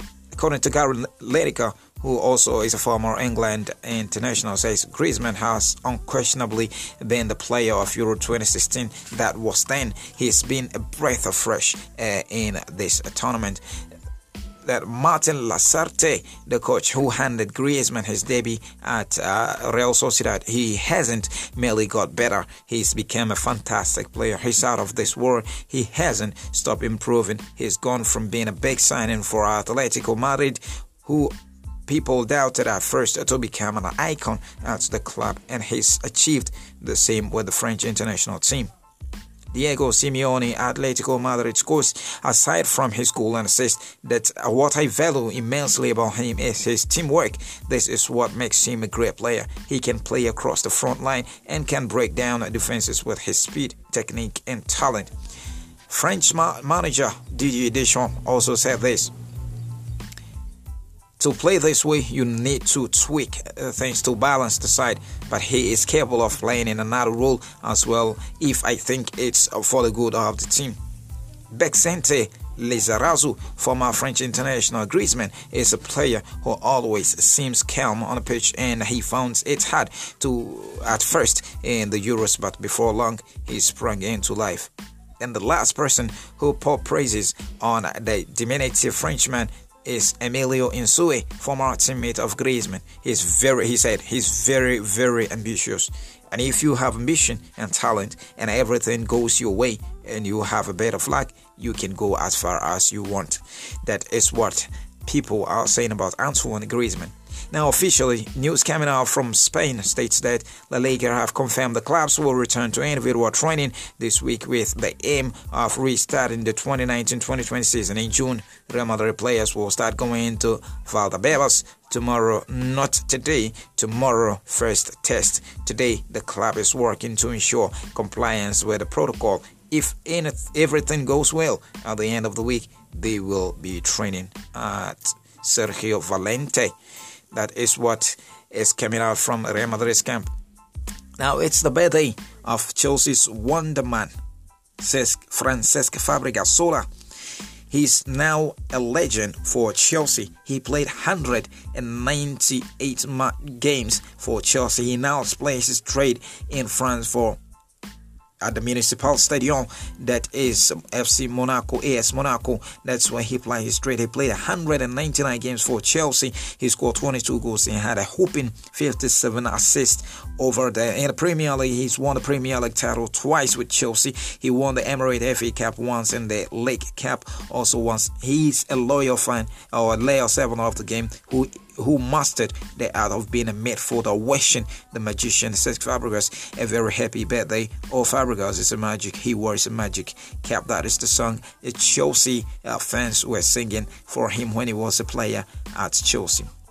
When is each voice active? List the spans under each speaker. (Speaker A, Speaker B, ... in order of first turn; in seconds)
Speaker A: 0.3-13.6, 14.6-31.3, 31.9-38.7, 39.5-55.1, 55.9-59.1, 61.2-70.8, 71.5-136.7, 137.3-140.3, 141.2-144.1, 144.8-146.9, 147.7-157.4, 158.4-196.5